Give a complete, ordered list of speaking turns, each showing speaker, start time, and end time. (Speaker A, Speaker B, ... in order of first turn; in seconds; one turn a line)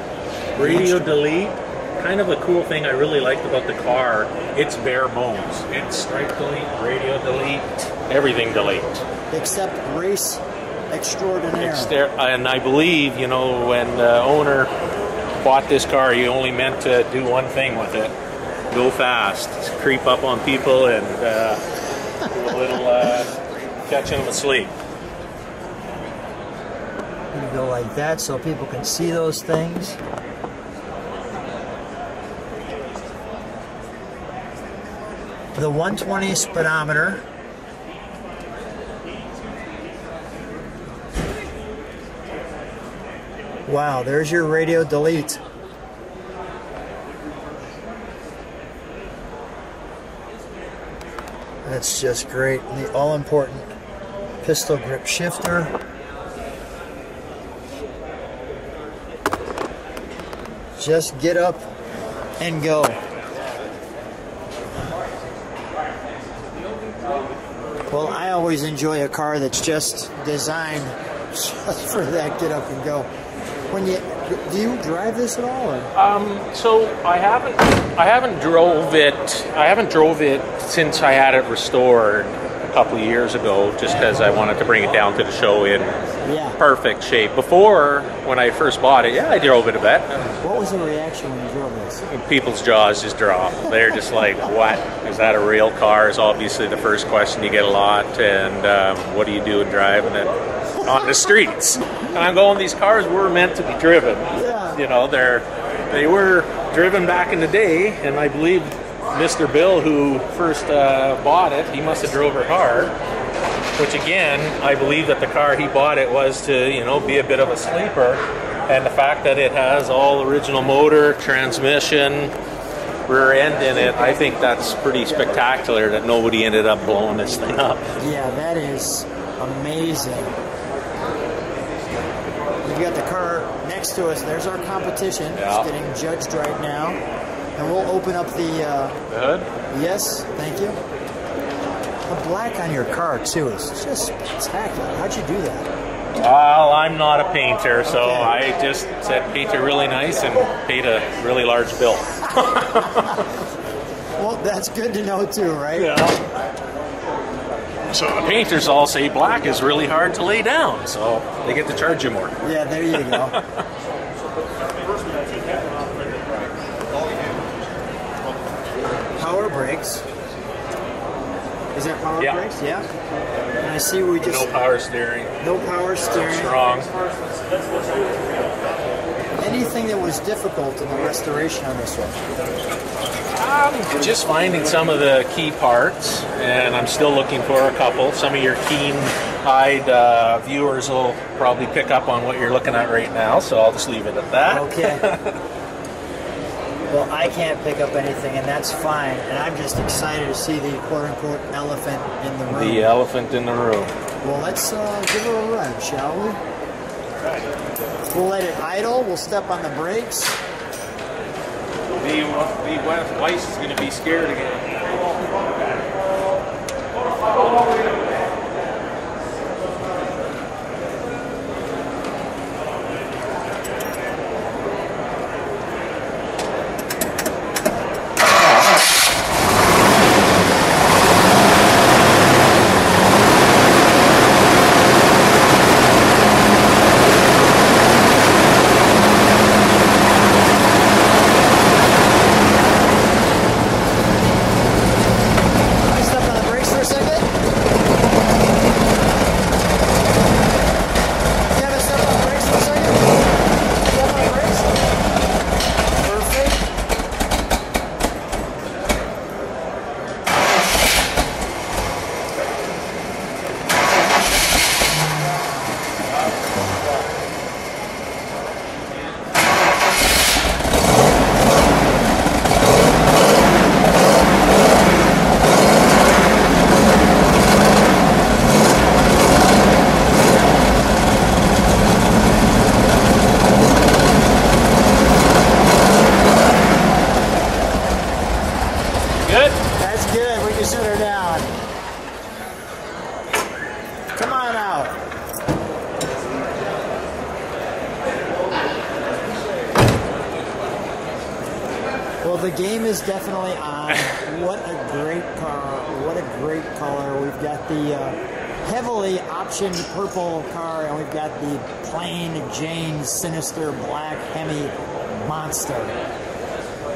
Speaker A: 0.5-9.0
Speaker B: 0.6-1.2
Speaker B: 9.3-11.9
Speaker A: 11.6-14.7
Speaker A: 15.4-18.1
Speaker A: 18.7-21.6
Speaker A: 22.2-24.7
Speaker B: 27.3-30.0
Speaker B: 35.5-37.2
Speaker B: 43.6-45.4
Speaker B: 51.6-53.7
Speaker B: 54.4-55.7
Speaker B: 60.8-61.6
Speaker B: 62.4-63.0
Speaker B: 67.9-73.1
Speaker B: 73.7-75.9
Speaker A: 75.9-85.9
Speaker B: 86.2-86.6
Speaker A: 86.6-90.3
Speaker B: 90.4-92.0
Speaker A: 92.1-100.3
Speaker A: 100.8-112.9
Speaker B: 104.3-104.8
Speaker A: 113.8-122.3
Speaker A: 123.1-127.9
Speaker B: 128.0-130.3
Speaker B: 132.6-137.0
Speaker A: 135.3-135.7
Speaker B: 137.6-139.0
Speaker A: 139.1-139.5
Speaker B: 139.7-140.8
Speaker B: 142.1-145.7
Speaker A: 146.2-153.2
Speaker B: 147.8-148.3
Speaker B: 154.2-156.1
Speaker A: 155.8-156.2
Speaker A: 157.9-162.3
Speaker B: 162.4-163.4
Speaker A: 162.9-163.6
Speaker B: 169.2-170.0
Speaker B: 171.7-172.9
Speaker A: 172.2-172.4
Speaker B: 173.6-174.6
Speaker A: 174.2-175.4
Speaker B: 175.4-176.6
Speaker A: 176.1-176.9
Speaker B: 179.4-182.2
Speaker A: 183.3-195.4
Speaker B: 194.5-195.1
Speaker B: 196.9-202.9
Speaker A: 202.5-203.9
Speaker B: 204.2-206.4
Speaker B: 208.1-210.4
Speaker A: 212.0-214.7
Speaker B: 245.8-247.3
Speaker B: 251.5-253.2
Speaker B: 253.8-254.9
Speaker B: 255.9-256.6
Speaker A: 289.2-289.6
Speaker B: 289.8-291.5
Speaker B: 294.1-295.0
Speaker B: 302.2-315.9